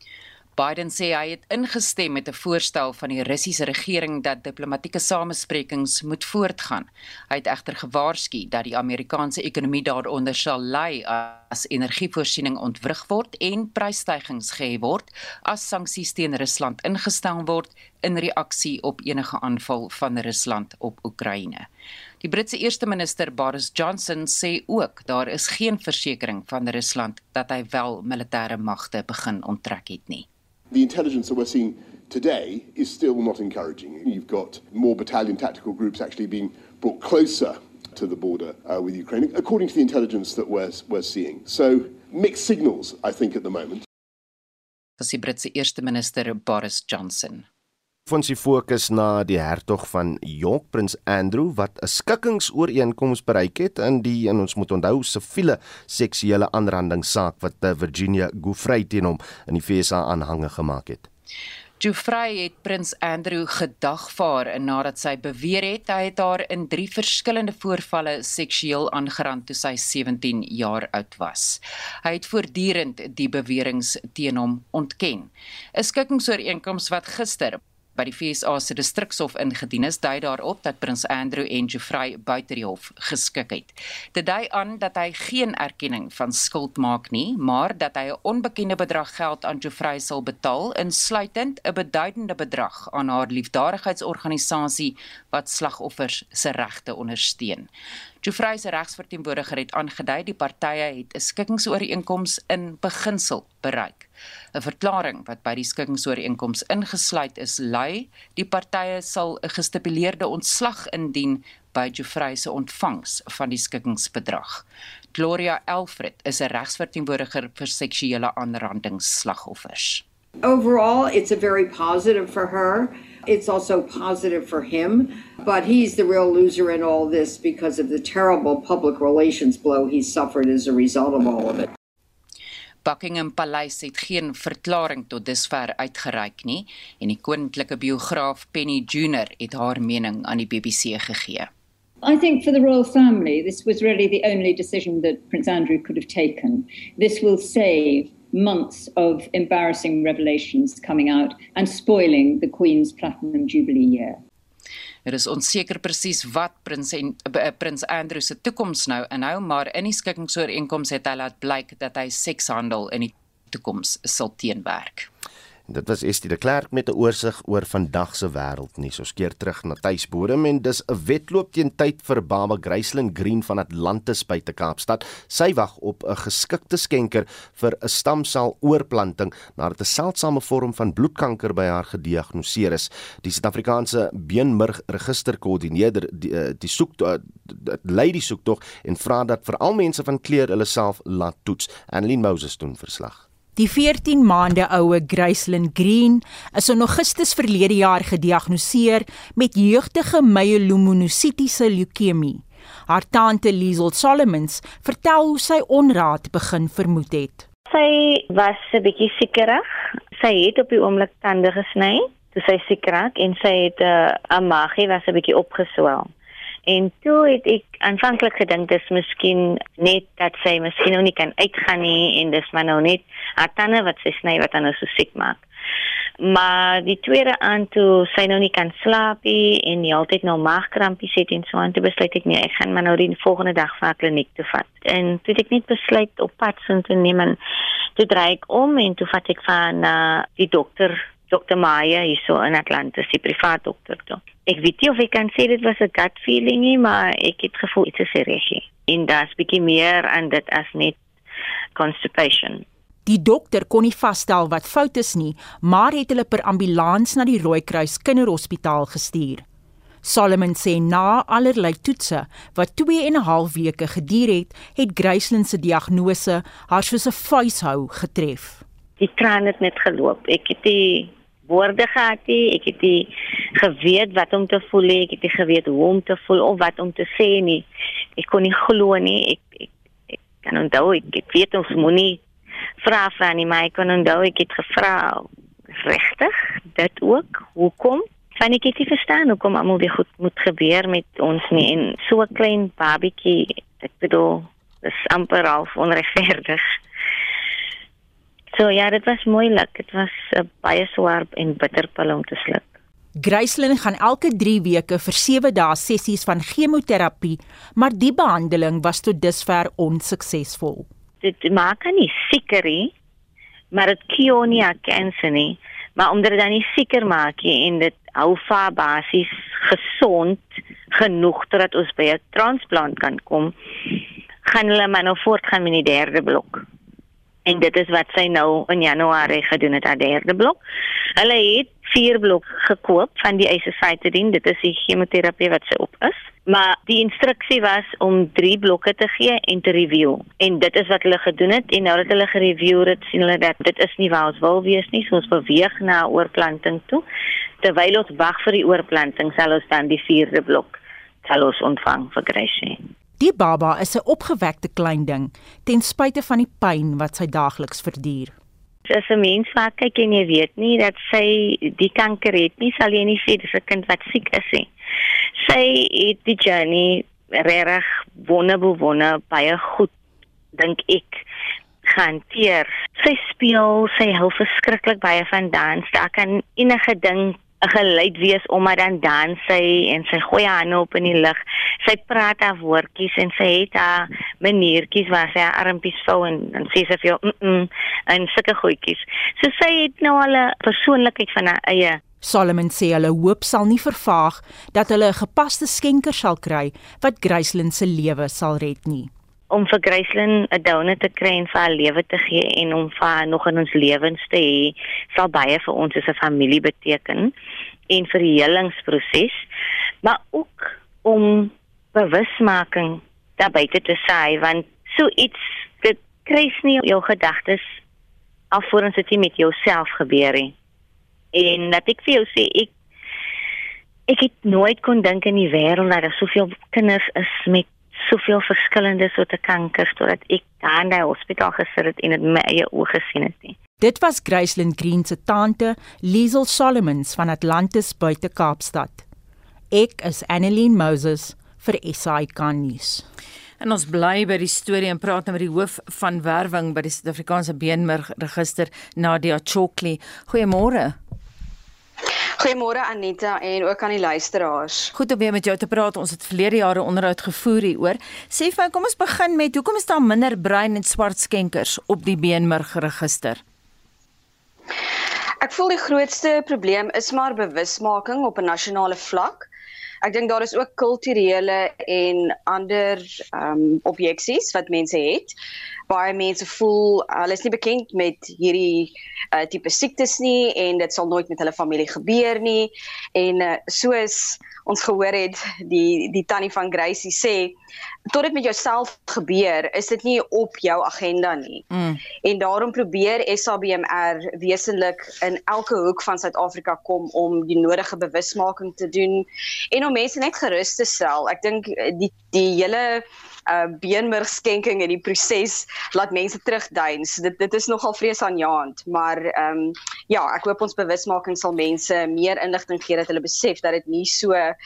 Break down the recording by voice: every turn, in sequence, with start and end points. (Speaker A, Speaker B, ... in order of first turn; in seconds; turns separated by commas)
Speaker A: 0.6-21.7, Speaker A: 22.2-30.3, Speaker B: 30.7-43.8, Speaker A: 45.0-47.5, Speaker C: 48.1-61.1, Speaker A: 61.8-97.7, Speaker A: 98.2-120.0, Speaker D: 120.4-131.7, Speaker A: 132.8-141.5, Speaker E: 142.0-154.2, Speaker A: 155.1-165.1, Speaker C: 165.7-193.2, Speaker F: 193.6-207.5, Speaker G: 207.7-209.7, Speaker G: 210.2-216.1, Speaker G: 216.7-225.4, Speaker G: 226.2-237.4, Speaker G: 238.0-251.0, Speaker G: 251.8-252.7, Speaker F: 253.1-259.4, Speaker F: 260.0-268.6, Speaker G: 269.0-277.6, Speaker G: 278.2-279.7, Speaker G: 280.4-282.2, Speaker G: 282.8-296.8, Speaker G: 298.5-302.7, Speaker F: 303.2-310.9, Speaker G: 311.2-312.9, Speaker G: 313.7-326.6, Speaker G: 327.5-330.6, Speaker G: 331.2-347.0, Speaker G: 347.6-352.8, Speaker F: 353.2-358.4, Speaker G: 358.9-364.7, Speaker G: 365.4-369.9, Speaker G: 370.5-371.2, Speaker G: 371.9-392.0, Speaker F: 392.2-399.1, Speaker G: 399.5-407.3, Speaker G: 407.9-409.4, Speaker G: 410.0-417.8, Speaker G: 418.5-420.5, Speaker G: 421.3-422.7, Speaker G: 424.1-433.6, Speaker F: 433.8-439.1, Speaker F: 439.7-443.1, Speaker H: 443.6-451.0, Speaker I: 452.4-454.7, Speaker H: 454.9-463.4, Speaker I: 465.4-469.5, Speaker I: 470.0-475.3, Speaker I: 475.9-487.5, Speaker I: 488.1-491.6, Speaker H: 491.7-492.0, Speaker I: 492.2-514.4